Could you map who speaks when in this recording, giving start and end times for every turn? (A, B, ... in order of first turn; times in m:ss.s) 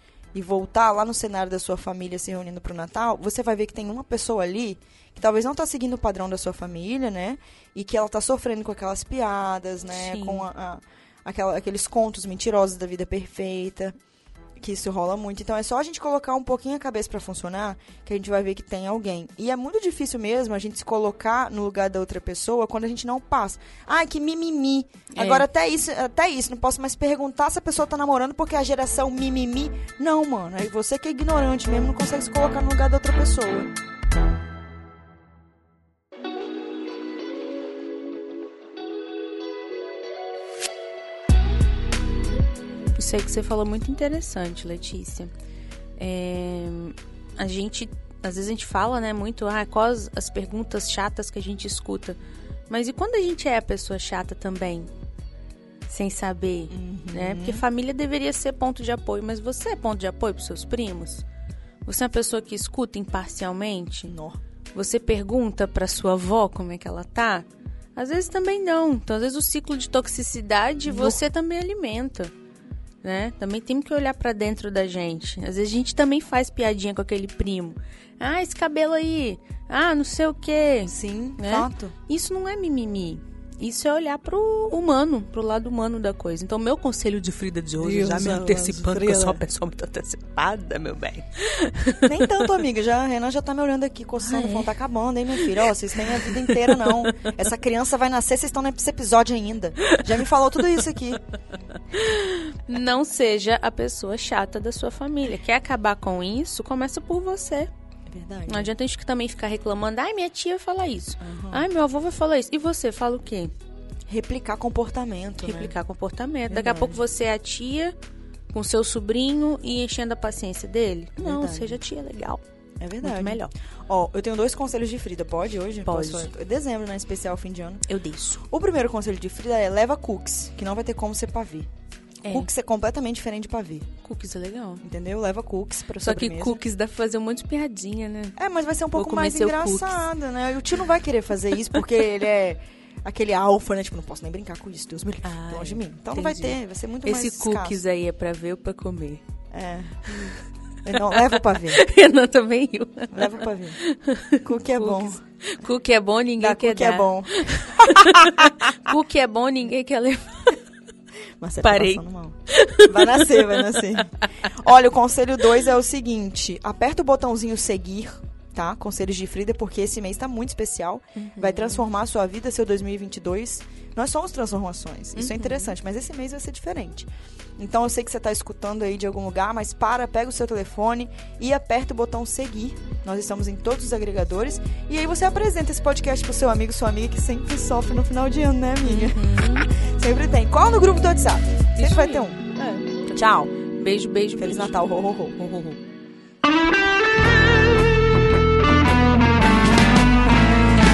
0:00.3-0:13.9 A
0:09.9-0:10.5 B
0:14.6-0:33.7 A
0:25.1-0:25.5 B
0:42.9-0:45.3 B
0:46.0-0:52.2 B
0:52.7-0:54.9 B
0:55.9-1:01.2 B
0:56.7-0:57.6 A
1:01.8-1:04.1 B
1:04.1-1:04.4 A
1:04.7-1:12.3 B
1:10.9-1:11.2 A
1:13.0-1:32.2 B
1:20.9-1:21.9 A
1:27.8-1:29.4 A
1:32.0-1:41.2 A
1:34.2-1:34.7 B
1:35.3-1:37.3 B
1:41.9-1:47.7 B
1:48.1-1:48.7 A
1:48.5-1:53.5 B
1:51.2-1:51.7 A
1:54.1-1:55.7 A
1:55.4-1:57.9 B
1:56.5-1:57.0 A
1:58.5-2:02.4 B
2:01.2-2:01.8 A
2:02.8-2:07.8 A
2:03.0-2:03.5 B
2:05.8-2:06.3 B
2:07.9-2:08.4 B
2:08.4-2:11.7 A
2:12.2-2:12.5 B
2:12.3-2:13.9 A
2:14.0-2:14.8 B
2:14.8-2:16.6 A
2:16.0-2:18.4 B
2:18.4-2:27.8 A
2:19.0-2:20.1 B
2:25.2-2:29.2 B
2:29.5-2:30.0 A
2:30.1-2:30.4 B
2:30.8-2:31.8 A
2:31.1-2:40.6 B
2:33.1-2:33.8 A
2:34.4-2:35.2 A
2:36.4-2:38.6 A
2:41.4-3:12.4 A
2:41.6-2:44.5 B
2:51.2-2:51.8 B
2:55.2-2:55.7 B
3:08.8-3:09.7 B
3:11.7-3:14.8 B
3:13.1-3:13.5 A
3:14.4-3:15.4 A
3:15.4-3:15.8 B